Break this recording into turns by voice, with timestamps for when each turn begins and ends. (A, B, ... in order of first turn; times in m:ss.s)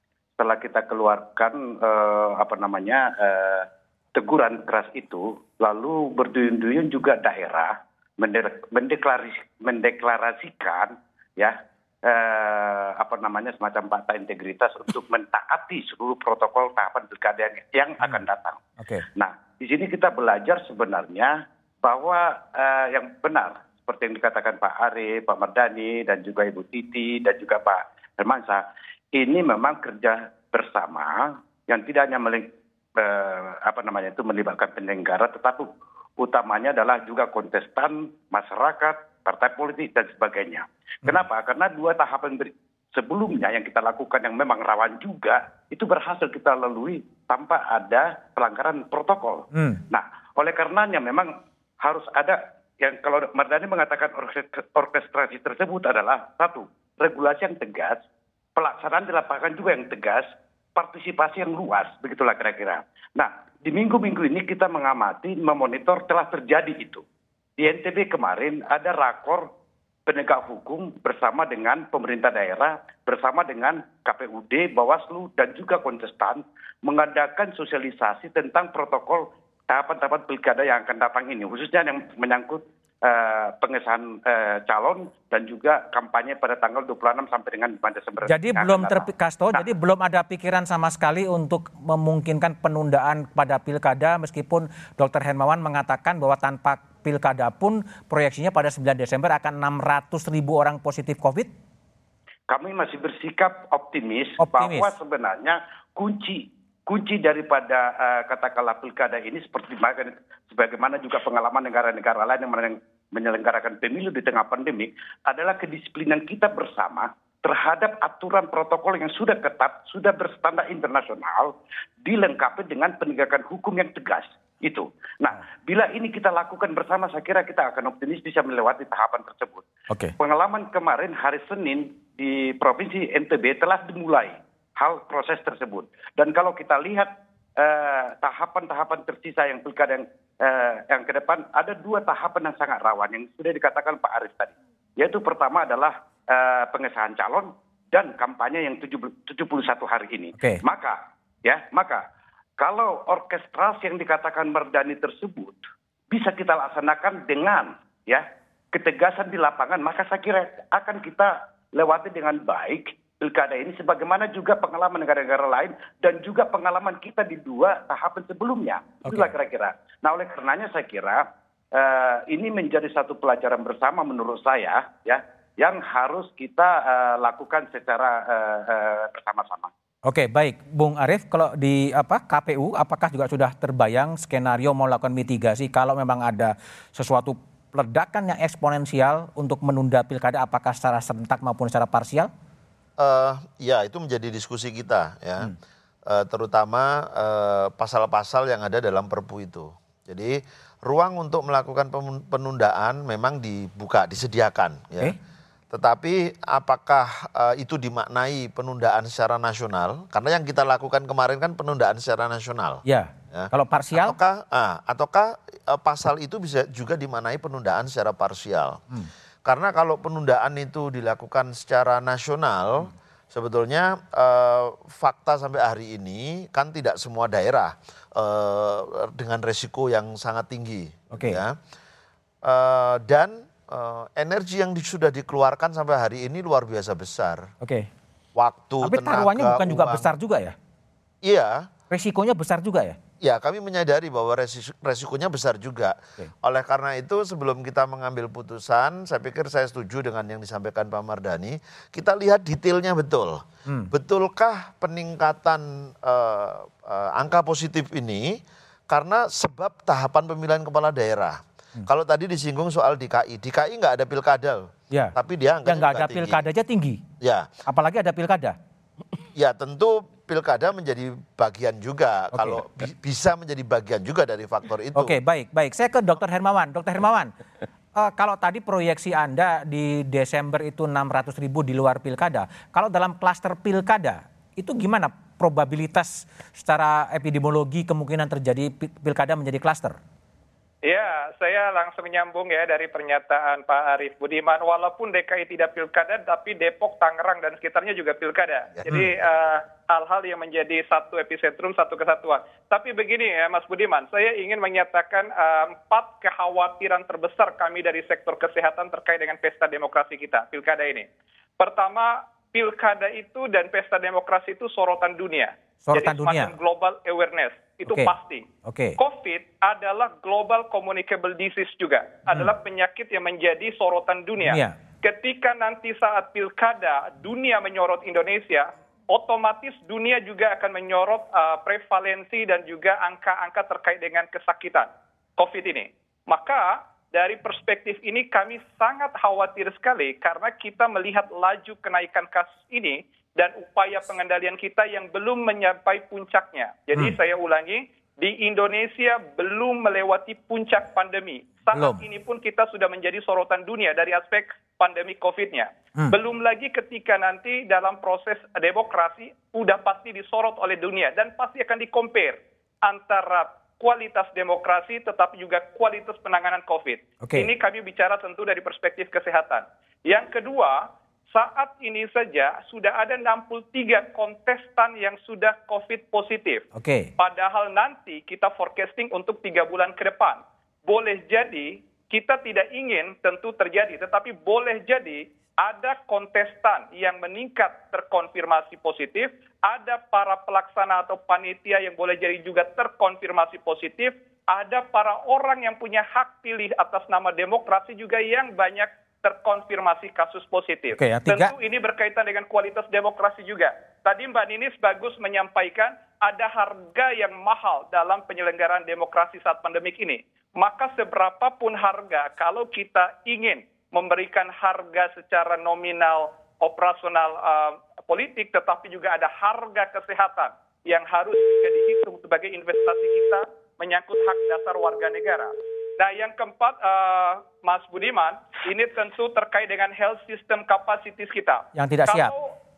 0:00.4-0:18.6 A
0:19.1-0:58.0 A
0:49.5-0:49.8 B
0:58.6-1:07.0 A
1:07.6-1:09.5 A
1:10.1-1:29.7 A
1:28.2-1:41.5 B
1:42.5-2:09.6 A
1:44.4-1:44.9 B
2:09.9-2:10.1 B
2:10.2-2:32.0 A
2:32.6-2:59.7 A
2:49.0-2:49.3 B
3:00.1-3:12.3 B
3:13.0-3:15.5 C
3:16.1-3:25.1 C
3:25.7-3:32.8 C
3:32.9-3:34.2 B
3:33.3-3:38.8 C
3:39.4-3:51.6 C
3:51.1-3:51.4 B
3:52.4-3:57.5 C
3:57.6-3:57.9 B
3:58.4-4:00.1 C
3:58.8-4:00.6 B
4:01.2-4:01.7 C
4:01.9-4:03.0 B
4:03.2-4:26.4 C
4:13.6-4:13.9 B
4:25.6-4:27.0 B
4:27.2-4:27.5 C
4:27.6-4:28.6 B
4:29.4-4:35.2 C
4:32.3-4:32.6 B
4:35.0-4:37.3 B
4:37.9-4:50.0 B
4:50.8-5:11.1 D
5:11.6-5:18.4 D
5:15.9-5:16.5 B
5:18.6-5:19.0 B
5:19.0-6:16.6 D
5:24.4-5:24.7 B
5:51.7-5:52.0 B
6:07.2-6:07.5 B
6:16.8-6:17.1 B
6:17.2-7:12.6 D
6:41.0-6:41.5 B
7:11.8-7:12.3 B